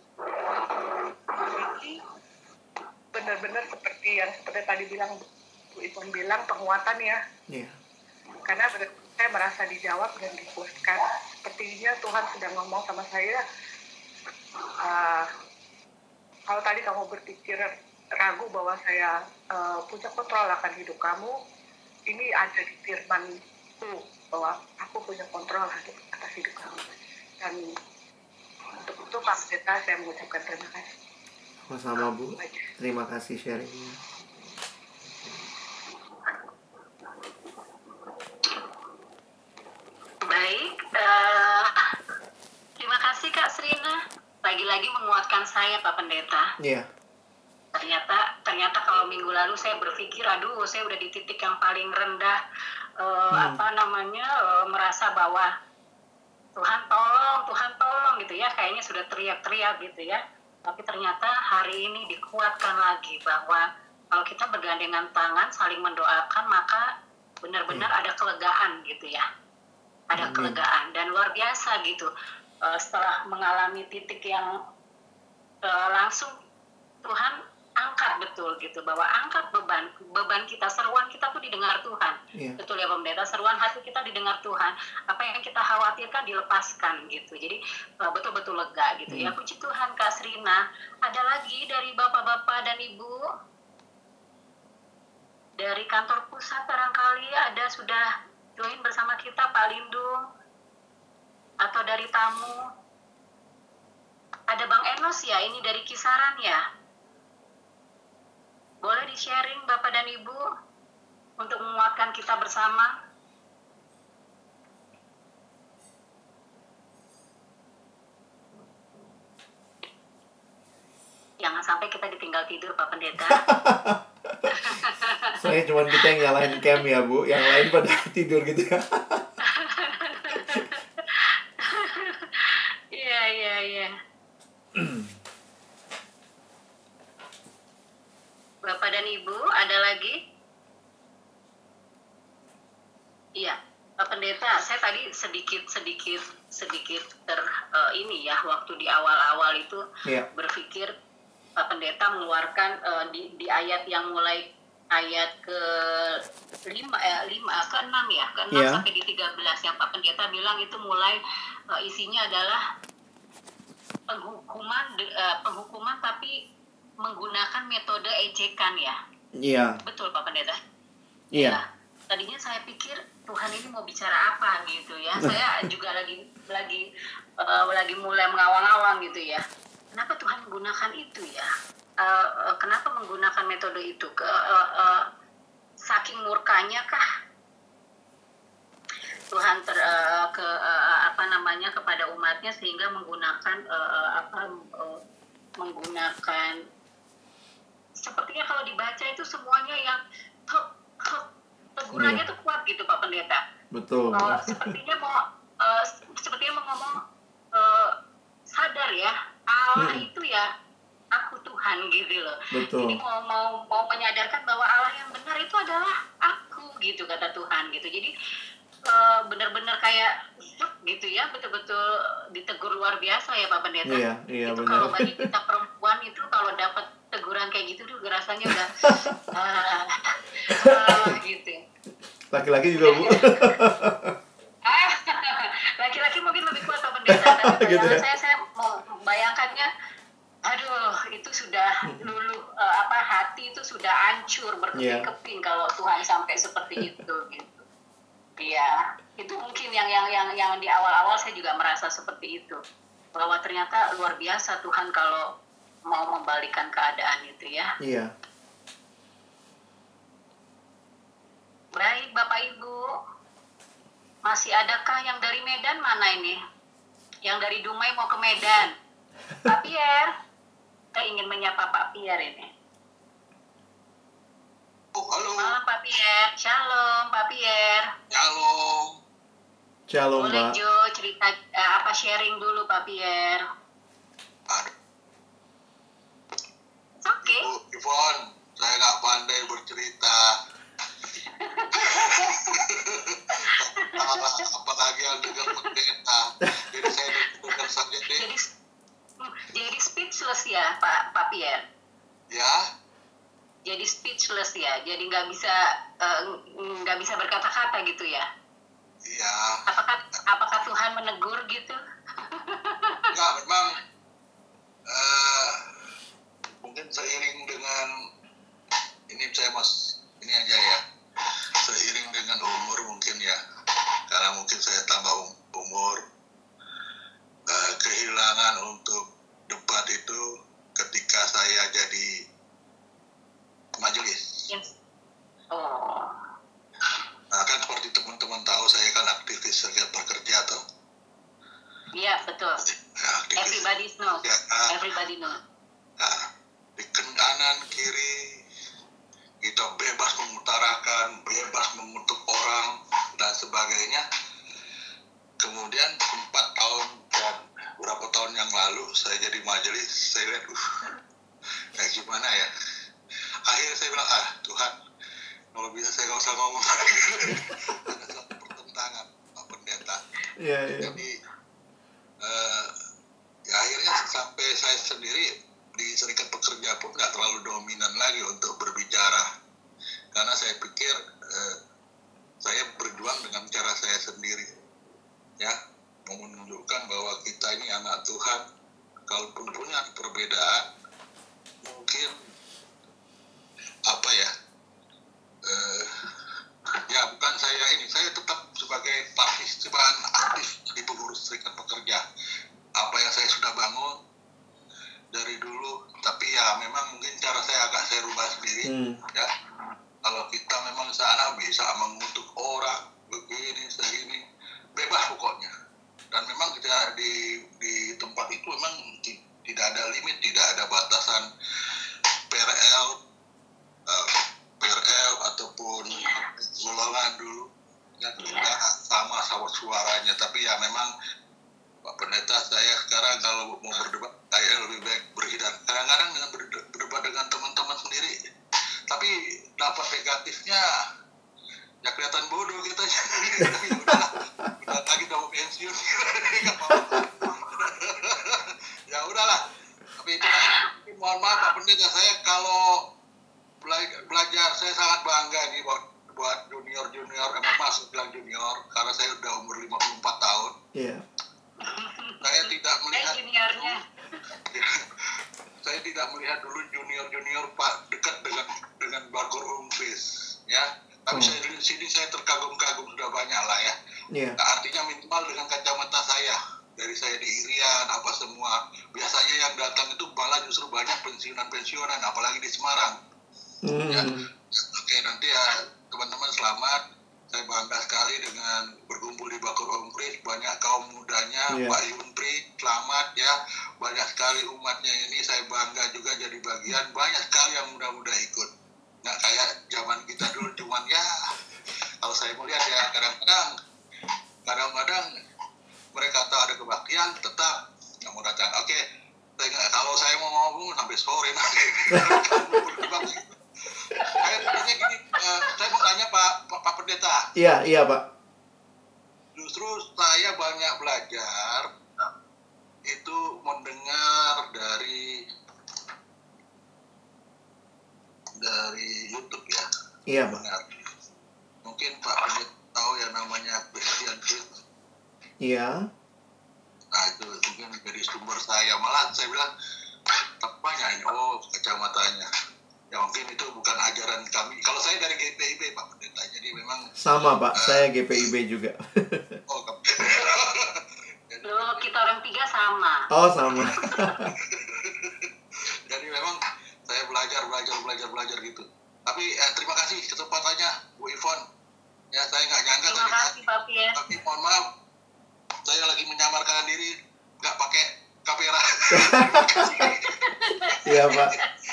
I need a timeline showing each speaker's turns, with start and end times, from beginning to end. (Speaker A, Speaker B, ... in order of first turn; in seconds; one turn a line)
Speaker A: 0.2-2.0
Speaker A: 3.1-5.2
Speaker A: 5.7-7.2
Speaker B: 7.5-7.7
Speaker A: 8.4-13.4
Speaker A: 14.7-15.3
Speaker A: 16.5-21.3
Speaker A: 22.1-23.3
Speaker A: 23.8-27.6
Speaker A: 28.8-30.9
Speaker B: 31.7-34.0
Speaker C: 40.2-41.8
Speaker C: 42.8-46.5
Speaker B: 46.6-46.9
Speaker C: 47.7-52.4
Speaker C: 53.0-55.5
Speaker B: 53.3-53.6
Speaker C: 56.5-66.9
Speaker C: 67.4-69.2
Speaker C: 70.1-72.1
Speaker B: 70.2-70.5
Speaker C: 72.6-74.5
Speaker C: 75.7-76.3
Speaker C: 77.0-93.2
Speaker B: 82.3-82.6
Speaker C: 95.6-100.2
Speaker C: 101.6-102.7
Speaker C: 104.5-106.6
Speaker C: 108.8-110.4
Speaker C: 111.4-112.9
Speaker C: 121.4-123.4
Speaker B: 123.2-124.5
Speaker C: 124.6-125.3
Speaker B: 125.4-129.3
Speaker C: 129.5-133.9
Speaker B: 134.8-135.1
Speaker C: 138.7-140.2
Speaker C: 143.4-149.8
Speaker C: 150.3-150.9
Speaker C: 151.6-161.2
Speaker B: 158.5-158.8
Speaker C: 161.7-162.6
Speaker C: 164.1-166.4
Speaker C: 167.0-169.0
Speaker B: 169.3-169.8
Speaker C: 169.8-170.6
Speaker C: 171.3-176.8
Speaker C: 177.4-181.5
Speaker C: 182.0-185.1
Speaker C: 185.8-187.0
Speaker C: 189.3-195.0
Speaker C: 195.6-196.6
Speaker C: 198.0-203.4
Speaker B: 201.9-202.2
Speaker B: 203.7-204.7
Speaker C: 204.1-207.0
Speaker C: 207.5-207.9
Speaker C: 208.5-210.5
Speaker B: 209.8-210.0
Speaker C: 211.1-218.1
Speaker B: 212.5-213.0
Speaker C: 218.9-231.6
Speaker B: 223.9-225.2
Speaker B: 228.5-229.2
Speaker B: 230.5-231.1
Speaker B: 232.3-234.1
Speaker C: 232.8-233.6
Speaker C: 234.6-239.7
Speaker B: 237.1-238.0
Speaker C: 240.5-247.6
Speaker B: 244.8-245.1
Speaker C: 248.4-252.6
Speaker C: 253.2-255.3
Speaker C: 255.9-257.7
Speaker B: 257.8-258.1
Speaker C: 261.8-262.8
Speaker C: 264.2-266.4
Speaker C: 267.2-268.7
Speaker C: 269.4-270.1
Speaker C: 271.0-272.5
Speaker D: 274.9-275.6
Speaker C: 275.4-277.9
Speaker D: 278.1-278.9
Speaker B: 279.9-280.6
Speaker C: 280.2-283.4
Speaker C: 287.0-287.5
Speaker D: 287.2-290.2
Speaker C: 291.4-292.6
Speaker D: 291.8-298.2
Speaker C: 293.3-294.2
Speaker C: 295.3-295.7
Speaker C: 298.1-298.5
Speaker C: 299.2-301.6
Speaker D: 302.3-302.6
Speaker C: 303.6-308.2
Speaker D: 309.1-309.6
Speaker C: 309.7-313.1
Speaker D: 313.1-313.8
Speaker D: 314.9-315.6
Speaker D: 316.6-317.9
Speaker D: 319.1-320.8
Speaker D: 321.6-323.4
Speaker D: 324.1-326.0
Speaker D: 327.5-330.2
Speaker D: 330.8-332.1
Speaker D: 333.8-334.5
Speaker C: 335.5-336.2
Speaker D: 337.3-340.6
Speaker C: 341.9-342.6
Speaker D: 342.9-343.7
Speaker C: 343.4-345.4
Speaker D: 344.2-344.7
Speaker D: 346.0-348.2
Speaker D: 349.4-354.0
Speaker D: 355.4-360.6
Speaker D: 361.8-362.5
Speaker D: 363.5-364.7
Speaker D: 365.5-370.0
Speaker B: 370.4-371.0
Speaker D: 370.8-371.1
Speaker D: 372.2-372.7
Speaker D: 373.5-379.3
Speaker D: 380.1-381.6
Speaker D: 382.4-384.5
Speaker D: 385.4-388.4
Speaker D: 389.1-390.6
Speaker D: 391.6-392.1
Speaker D: 393.9-394.3
Speaker D: 395.4-396.1
Speaker D: 396.7-402.0
Speaker D: 402.8-403.9
Speaker D: 405.1-409.3
Speaker B: 408.6-409.0
Speaker D: 410.0-414.2
Speaker D: 414.8-415.5
Speaker D: 416.1-421.3
Speaker D: 422.3-423.0
Speaker D: 423.9-427.5
Speaker D: 428.0-430.9
Speaker D: 431.9-438.1
Speaker D: 438.9-440.6
Speaker D: 441.8-449.4
Speaker B: 443.5-443.9
Speaker D: 450.0-452.9
Speaker D: 453.6-460.5
Speaker B: 460.7-461.0
Speaker C: 461.6-463.8
Speaker D: 462.2-463.8
Speaker D: 465.6-473.7
Speaker B: 474.1-474.4
Speaker D: 474.4-483.0
Speaker B: 483.6-484.3
Speaker D: 483.9-498.5
Speaker B: 491.5-491.8
Speaker D: 499.0-501.1
Speaker D: 502.0-503.5
Speaker D: 504.4-505.1
Speaker D: 505.9-508.8
Speaker D: 509.4-513.4
Speaker B: 512.0-512.4
Speaker D: 514.1-517.2
Speaker B: 517.4-518.0
Speaker D: 519.3-521.7
Speaker D: 522.9-525.0
Speaker D: 528.4-529.6
Speaker B: 530.1-530.4
Speaker D: 530.2-530.8
Speaker D: 531.6-534.5
Speaker B: 535.4-535.9
Speaker D: 536.9-539.5
Speaker D: 540.4-542.3
Speaker D: 542.9-546.9
Speaker B: 547.0-549.4
Speaker D: 549.5-551.9
Speaker C: 551.4-553.1
Speaker B: 553.1-554.3
Speaker D: 554.5-555.3
Speaker D: 555.9-561.4
Speaker D: 562.1-563.4
Speaker C: 562.9-564.0
Speaker D: 563.9-564.7
Speaker D: 565.6-571.4
Speaker B: 568.9-569.8
Speaker C: 570.2-570.8
Speaker B: 570.8-571.3